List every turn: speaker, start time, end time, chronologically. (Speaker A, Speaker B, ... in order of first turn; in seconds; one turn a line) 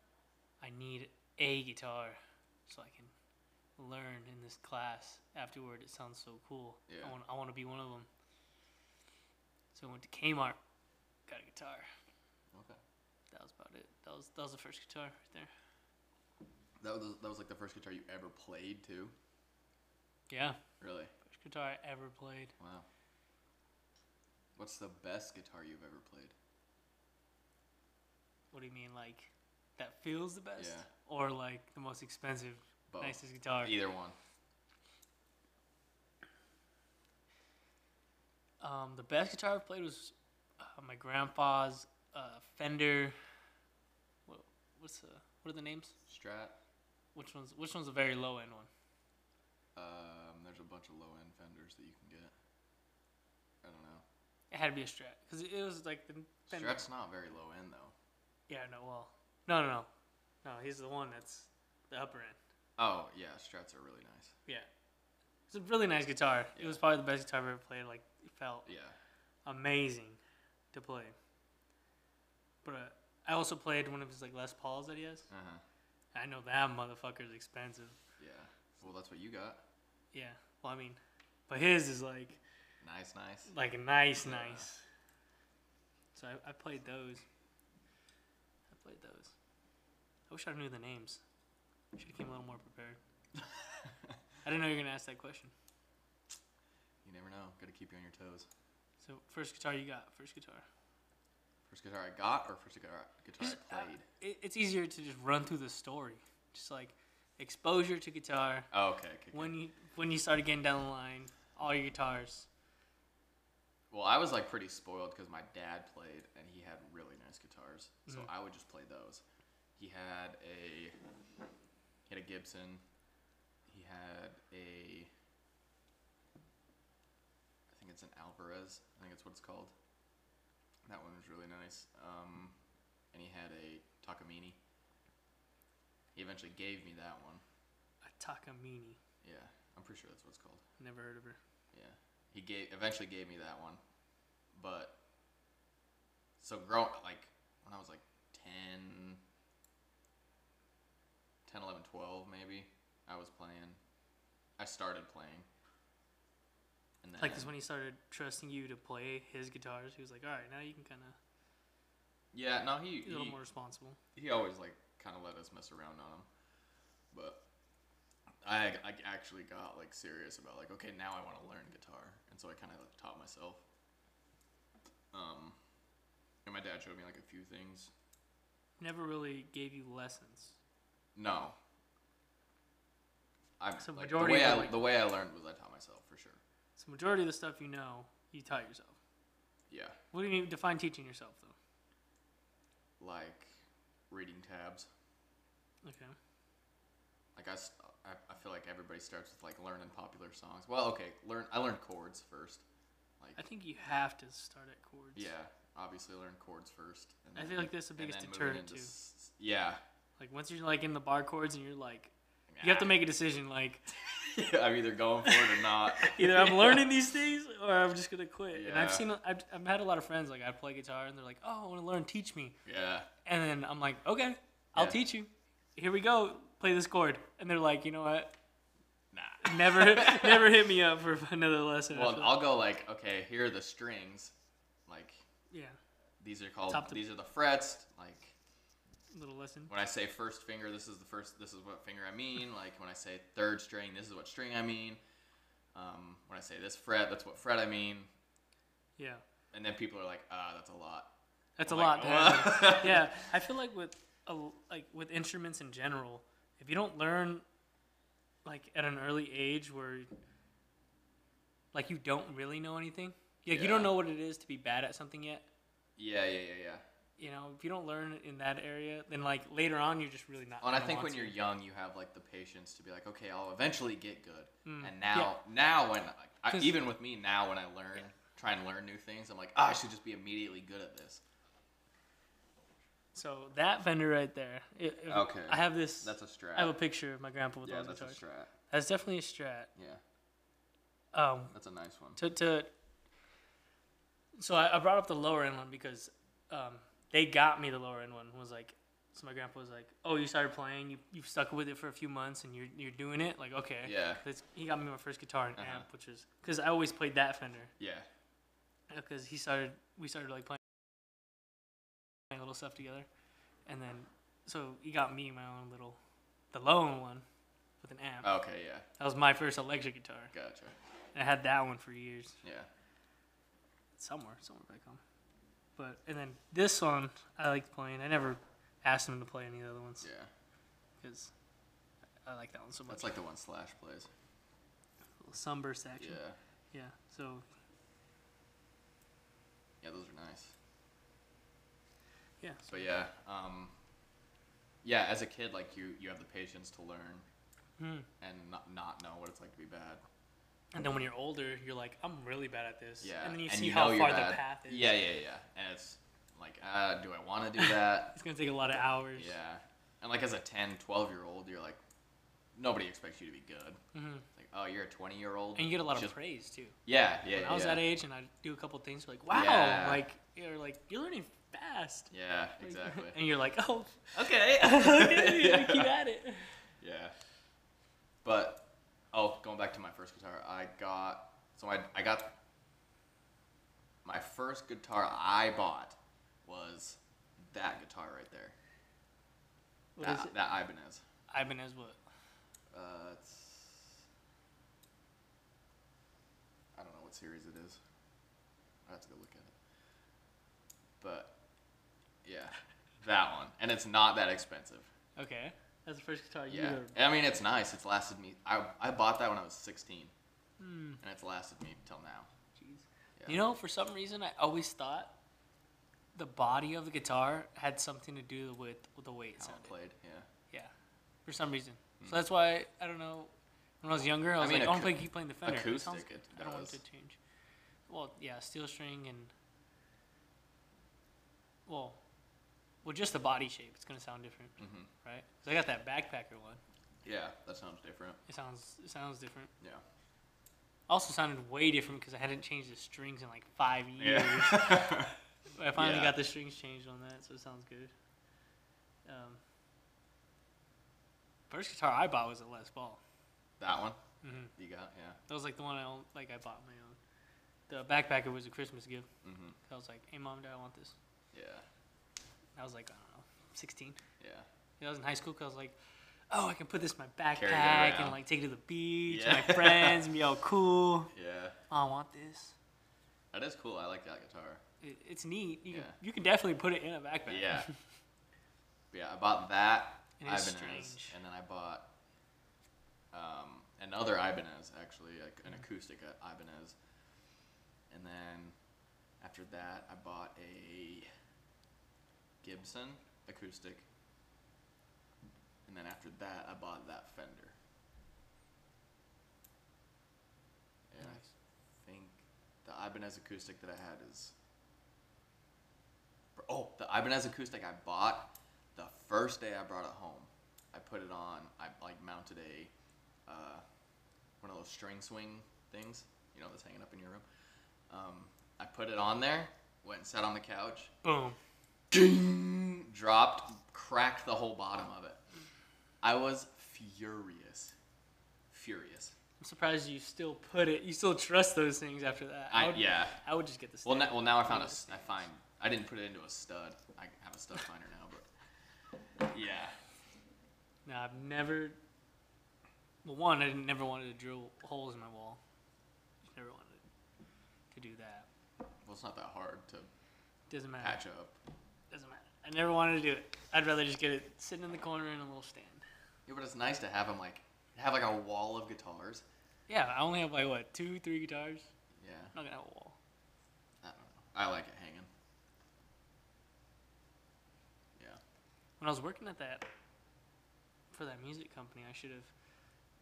Speaker A: 0.6-3.1
Speaker A: 3.8-8.1
Speaker B: 6.9-7.2
Speaker A: 9.7-10.6
Speaker A: 11.3-11.9
Speaker B: 12.5-12.8
Speaker A: 13.3-15.5
Speaker B: 16.8-19.1
Speaker A: 20.3-20.6
Speaker B: 20.8-21.1
Speaker A: 21.2-22.5
Speaker B: 22.6-22.9
Speaker B: 24.6-26.4
Speaker A: 28.5-33.8
Speaker B: 30.6-30.9
Speaker B: 32.9-34.2
Speaker A: 38.6-43.2
Speaker A: 44.3-45.9
Speaker B: 46.1-46.5
Speaker A: 47.1-48.7
Speaker B: 49.8-52.3
Speaker B: 53.6-54.0
Speaker A: 54.5-56.8
Speaker B: 56.5-58.0
Speaker A: 58.5-59.9
Speaker A: 60.4-62.4
Speaker B: 62.8-64.3
Speaker A: 65.5-68.7
Speaker B: 66.5-66.8
Speaker B: 68.7-69.0
Speaker A: 69.5-70.2
Speaker A: 70.7-71.2
Speaker A: 72.6-75.3
Speaker B: 75.3-75.6
Speaker A: 76.1-78.0
Speaker B: 78.2-79.6
Speaker A: 80.1-82.4
Speaker B: 82.8-83.5
Speaker A: 83.5-84.8
Speaker B: 84.2-84.7
Speaker A: 86.2-87.2
Speaker A: 88.7-89.3
Speaker A: 90.3-91.2
Speaker A: 92.0-93.0
Speaker A: 94.5-95.5
Speaker B: 97.0-98.5
Speaker A: 99.0-100.7
Speaker B: 101.7-104.1
Speaker A: 103.4-108.7
Speaker B: 108.7-109.5
Speaker A: 109.3-112.5
Speaker B: 113.9-119.2
Speaker B: 119.8-121.0
Speaker B: 122.1-122.8
Speaker B: 123.7-125.1
Speaker B: 127.7-129.7
Speaker B: 130.9-132.6
Speaker B: 133.1-134.6
Speaker B: 136.2-137.4
Speaker A: 138.0-139.0
Speaker B: 139.2-140.6
Speaker A: 140.8-141.4
Speaker B: 141.7-143.8
Speaker B: 144.5-145.0
Speaker B: 146.4-149.2
Speaker B: 151.5-153.8
Speaker B: 154.6-155.5
Speaker B: 157.0-157.5
Speaker A: 157.2-161.2
Speaker B: 162.3-163.4
Speaker A: 163.0-164.0
Speaker B: 164.2-166.3
Speaker B: 167.1-167.4
Speaker B: 168.4-173.6
Speaker B: 175.1-175.6
Speaker B: 176.4-177.9
Speaker A: 178.8-180.6
Speaker B: 181.2-181.6
Speaker B: 183.6-186.4
Speaker A: 183.8-184.8
Speaker A: 186.8-189.0
Speaker B: 189.7-190.0
Speaker A: 190.1-191.6
Speaker B: 193.0-193.6
Speaker B: 194.1-194.9
Speaker A: 195.8-196.2
Speaker B: 197.4-202.6
Speaker A: 203.4-205.3
Speaker B: 205.2-209.8
Speaker A: 207.4-208.9
Speaker A: 210.2-213.8
Speaker B: 212.5-212.9
Speaker B: 214.0-216.9
Speaker A: 215.6-222.6
Speaker B: 218.5-219.1
Speaker B: 222.7-223.1
Speaker A: 223.2-228.3
Speaker B: 229.1-230.5
Speaker A: 229.4-232.4
Speaker B: 231.9-234.3
Speaker B: 234.9-235.2
Speaker A: 235.5-235.8
Speaker B: 236.2-238.4
Speaker A: 236.7-237.0
Speaker A: 239.1-239.7
Speaker B: 239.7-245.0
Speaker B: 245.7-248.1
Speaker A: 249.0-249.2
Speaker B: 249.5-251.2
Speaker A: 251.6-257.4
Speaker B: 251.7-253.2
Speaker A: 258.4-260.1
Speaker A: 261.7-265.5
Speaker B: 263.5-263.9
Speaker B: 266.0-266.8
Speaker A: 267.2-271.4
Speaker B: 270.6-281.2
Speaker A: 274.7-275.3
Speaker A: 276.5-276.8
Speaker A: 283.1-289.7
Speaker B: 285.1-286.8
Speaker B: 287.6-288.5
Speaker B: 289.8-290.0
Speaker A: 291.1-291.5
Speaker B: 291.5-292.2
Speaker A: 292.2-292.7
Speaker A: 294.4-307.7
Speaker B: 303.8-304.2
Speaker B: 305.6-305.9
Speaker B: 307.8-308.1
Speaker A: 308.9-310.6
Speaker A: 312.3-313.1
Speaker A: 313.7-316.0
Speaker A: 316.5-317.2
Speaker A: 317.8-318.3
Speaker B: 318.2-318.9
Speaker A: 319.0-320.3
Speaker B: 320.3-320.8
Speaker A: 321.1-322.4
Speaker B: 322.4-322.7
Speaker A: 324.0-325.0
Speaker A: 325.8-330.1
Speaker B: 330.0-330.3
Speaker A: 331.0-331.3
Speaker A: 332.3-333.1
Speaker B: 332.9-334.1
Speaker A: 335.2-336.2
Speaker B: 336.0-336.4
Speaker A: 336.7-337.5
Speaker B: 339.8-340.5
Speaker A: 342.4-342.8
Speaker B: 342.7-343.7
Speaker B: 344.8-347.3
Speaker A: 347.8-348.1
Speaker B: 348.2-350.0
Speaker A: 350.7-355.0
Speaker B: 353.0-358.1
Speaker A: 357.6-359.4
Speaker B: 359.1-361.8
Speaker B: 362.6-363.8
Speaker A: 363.9-364.3
Speaker B: 364.4-366.1
Speaker A: 365.6-366.8
Speaker B: 366.9-367.9
Speaker A: 367.3-376.6
Speaker B: 369.3-370.0
Speaker B: 372.1-373.2
Speaker B: 374.1-375.9
Speaker B: 376.8-377.1
Speaker B: 378.2-382.4
Speaker B: 384.1-388.6
Speaker A: 390.0-390.3
Speaker B: 390.0-391.0
Speaker A: 391.3-392.0
Speaker B: 392.7-394.0
Speaker B: 396.8-397.8
Speaker B: 398.9-399.5
Speaker B: 401.0-401.4
Speaker B: 402.2-404.9
Speaker A: 405.2-407.0
Speaker B: 406.5-410.1
Speaker A: 410.6-411.0
Speaker B: 411.0-412.3
Speaker A: 412.6-415.1
Speaker B: 413.2-413.5
Speaker A: 416.1-419.7
Speaker B: 419.4-420.3
Speaker A: 421.3-423.3
Speaker B: 422.0-422.3
Speaker A: 423.8-427.2
Speaker B: 424.4-426.8
Speaker A: 427.9-429.3
Speaker A: 431.7-432.0
Speaker A: 432.8-436.6
Speaker B: 434.6-434.9
Speaker B: 437.0-438.2
Speaker A: 438.3-439.5
Speaker A: 440.9-447.9
Speaker B: 444.0-445.1
Speaker B: 445.8-446.2
Speaker A: 449.1-449.4
Speaker A: 451.5-453.0
Speaker B: 453.6-454.0
Speaker A: 454.2-454.5
Speaker B: 454.6-455.2
Speaker A: 455.3-457.0
Speaker A: 457.7-459.1
Speaker B: 459.2-459.6
Speaker A: 459.6-460.9
Speaker B: 461.3-461.7
Speaker A: 462.6-464.0
Speaker B: 464.2-464.5
Speaker A: 464.8-465.8
Speaker A: 466.3-471.1
Speaker B: 467.4-468.2
Speaker B: 469.1-470.1
Speaker B: 471.1-471.6
Speaker A: 471.7-472.6
Speaker B: 473.3-474.6
Speaker A: 474.8-477.7
Speaker B: 475.7-476.0
Speaker B: 477.3-477.7
Speaker B: 478.9-481.9
Speaker A: 480.2-481.2
Speaker B: 483.1-486.8
Speaker B: 487.9-488.6
Speaker B: 489.2-491.1
Speaker B: 492.4-493.9
Speaker B: 495.7-497.6
Speaker B: 500.9-501.2
Speaker A: 501.0-501.3
Speaker B: 501.8-504.4
Speaker B: 506.4-512.7
Speaker B: 513.3-513.6
Speaker B: 514.4-517.2
Speaker B: 517.9-520.9
Speaker A: 521.0-521.4
Speaker B: 521.9-525.2
Speaker B: 526.0-527.8
Speaker B: 528.5-529.1
Speaker A: 529.4-535.2
Speaker B: 532.5-533.2
Speaker B: 533.9-538.3
Speaker B: 539.2-539.8
Speaker A: 540.9-541.8
Speaker A: 543.0-545.4
Speaker A: 546.3-546.8
Speaker A: 547.7-548.3
Speaker B: 548.8-549.9
Speaker A: 550.5-551.0
Speaker B: 550.8-551.4
Speaker A: 551.9-555.8
Speaker B: 556.3-559.2
Speaker A: 559.7-561.7
Speaker B: 562.0-562.3
Speaker A: 562.3-563.0
Speaker B: 563.8-565.1
Speaker A: 568.8-569.7
Speaker A: 570.9-572.3